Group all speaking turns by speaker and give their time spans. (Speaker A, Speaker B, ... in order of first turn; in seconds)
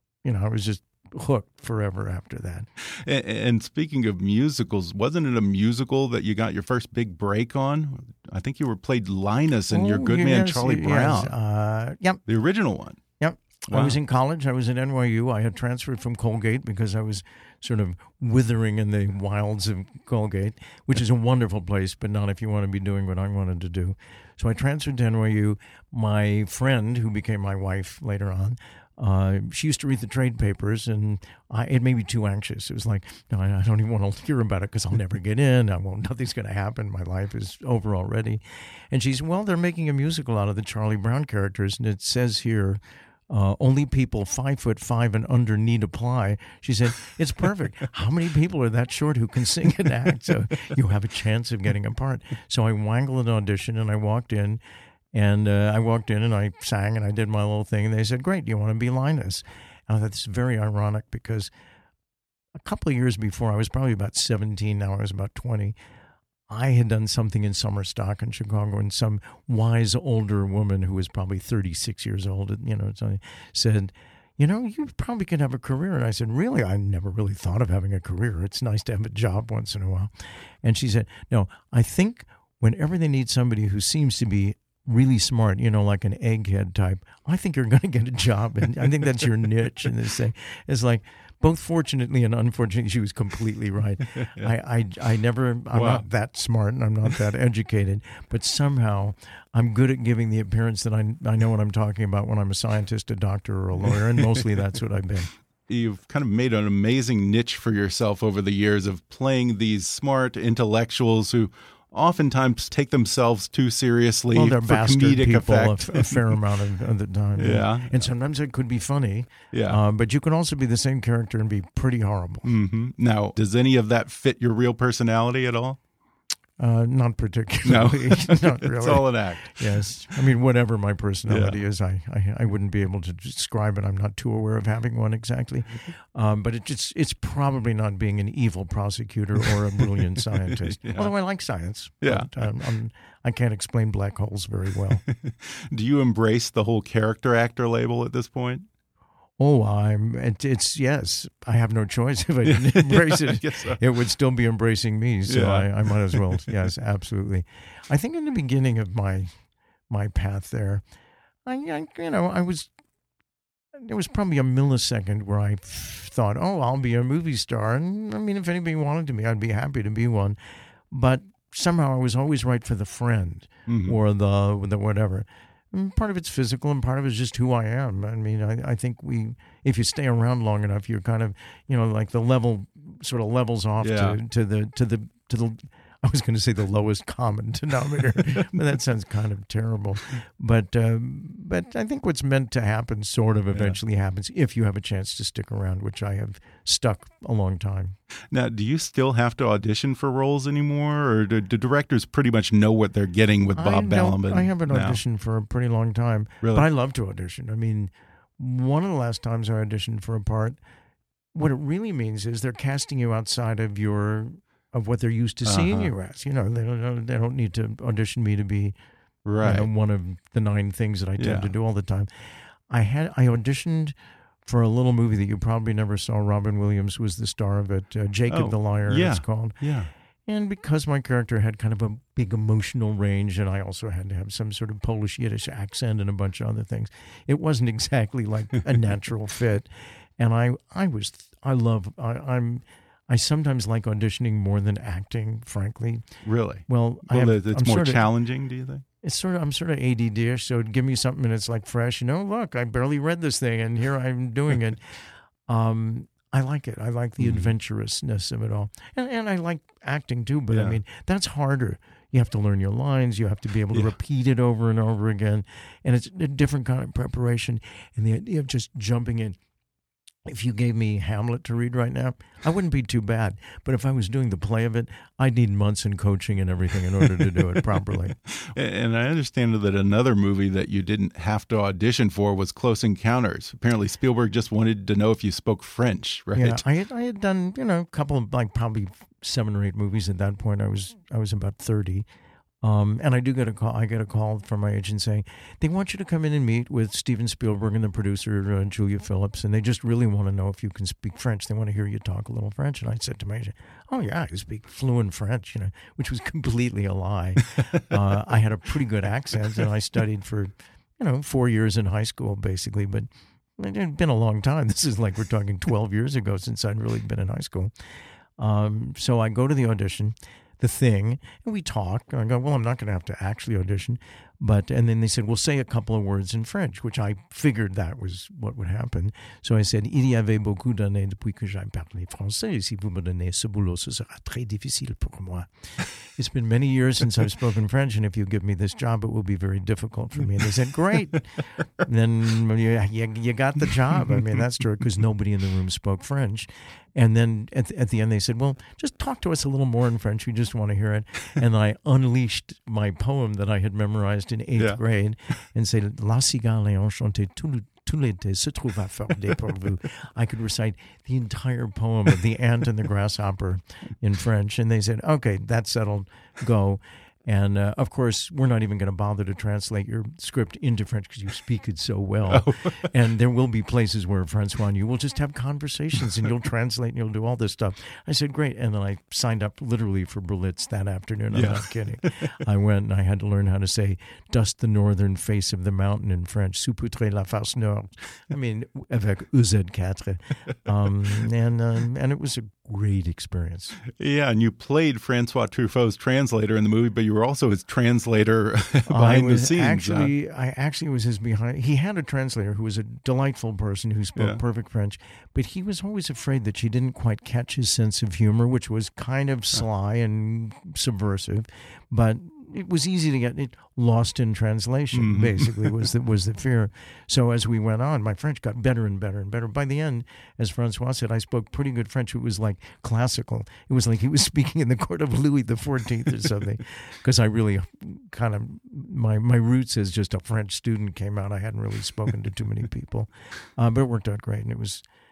Speaker A: 0.2-2.7, 9.7-12.2, 13.2-54.6, 55.1-61.5, 62.6-65.8, 66.5-80.1, 80.6-105.3, 114.3-122.5, 126.6-145.0, 149.4-159.3, 159.9-160.8, 161.5-162.7, 163.8-170.4, 170.9-198.0, 203.6-210.6, 211.3-218.8, 219.4-222.1, 222.7-223.9, 224.4-229.6, 230.3-246.0, 246.7-248.1, 249.0-254.8, 255.5-269.4, 270.2-278.2, 286.4-292.1, 292.6-317.7, 318.4-393.8, 398.9-434.8
Speaker B: 2.8-11.3, 12.3-13.0, 13.7-14.0, 94.2-94.5, 95.7-96.0, 103.9-104.2, 105.7-116.3, 117.4-118.1, 119.5-119.8, 122.4-125.8, 127.7-129.8, 131.3-131.6, 140.0-141.1, 142.0-142.4, 145.1-148.7, 152.4-153.8, 155.3-156.6, 173.7-174.0, 183.8-184.2, 193.5-193.8, 198.3-205.0, 206.4-206.7, 215.4-215.9, 219.2-219.7, 221.2-221.5, 228.3-229.9, 246.2-248.8, 257.2-257.5, 260.5-260.8, 278.3-286.6, 372.3-372.9, 381.3-382.3, 393.9-400.1, 414.9-415.8